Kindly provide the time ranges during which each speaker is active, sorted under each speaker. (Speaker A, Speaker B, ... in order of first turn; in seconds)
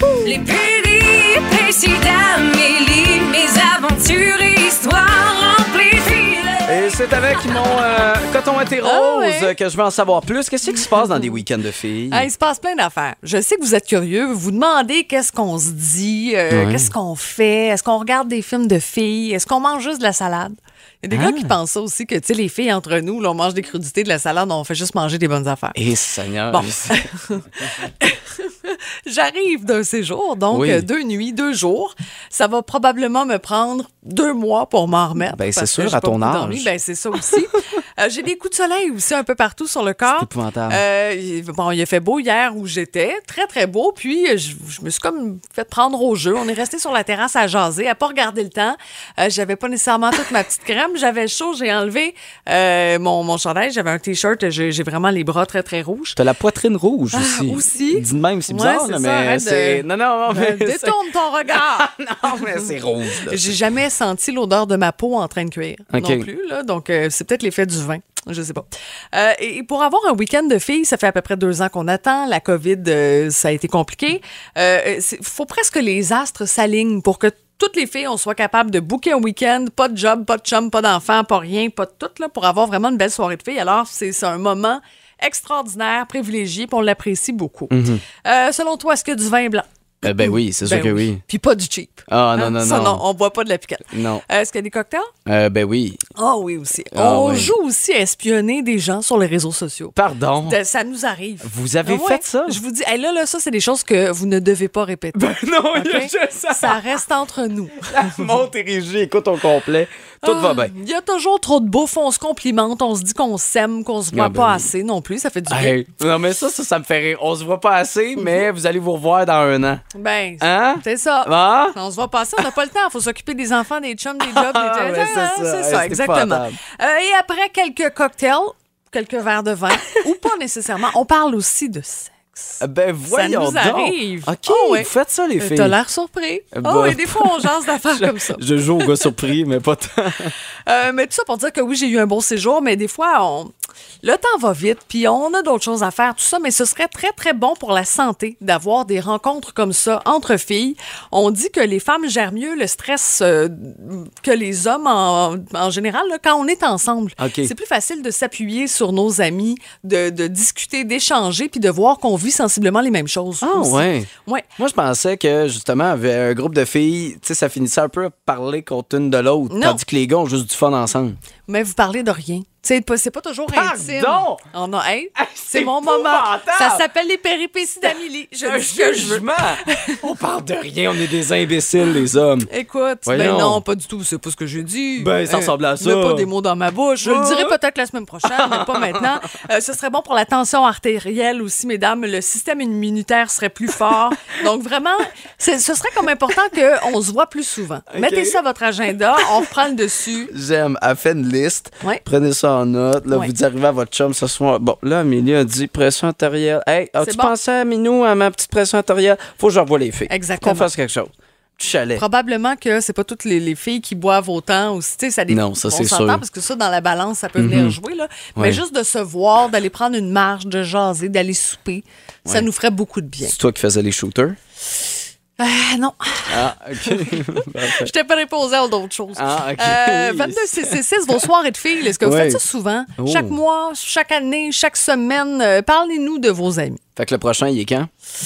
Speaker A: 0.2-6.7
Speaker B: 6.7-12.3, 16.5-16.9, 21.1-21.5, 25.7-26.9, 30.5-30.9, 35.3-36.7, 40.1-40.8, 56.1-63.6, 65.9-66.3, 87.7-88.0, 90.0-91.2, 92.1-93.0, 93.9-94.2, 95.2-96.0, 96.9-97.5, 100.0-100.6, 101.4-102.6, 105.1-107.0, 107.8-110.7, 114.1-114.7, 115.5-119.8, 120.4-121.8, 124.2-126.6, 132.6-135.8, 136.5-140.3, 157.2-157.5, 163.4-171.2, 173.5-174.4, 175.2-176.8, 178.4-182.5, 183.1-183.6, 185.0-186.3, 187.0-187.6, 188.2-189.2, 197.9-198.4, 200.3-212.0, 215.3-216.2, 217.4-217.8, 218.3-218.6, 223.2-224.4, 226.3-227.9, 229.1-230.8, 232.0-232.4, 233.0-233.4, 237.0-237.9
Speaker C: 8.8-9.5, 10.7-11.4, 12.1-25.8, 26.5-56.2, 57.1-62.6, 63.2-95.1, 96.2-108.3, 110.2-115.8, 119.9-139.0, 140.7-164.5, 169.5-169.8, 171.5-180.0, 182.5-200.3, 207.0-207.3, 210.1-210.7, 211.9-223.3, 225.4-236.8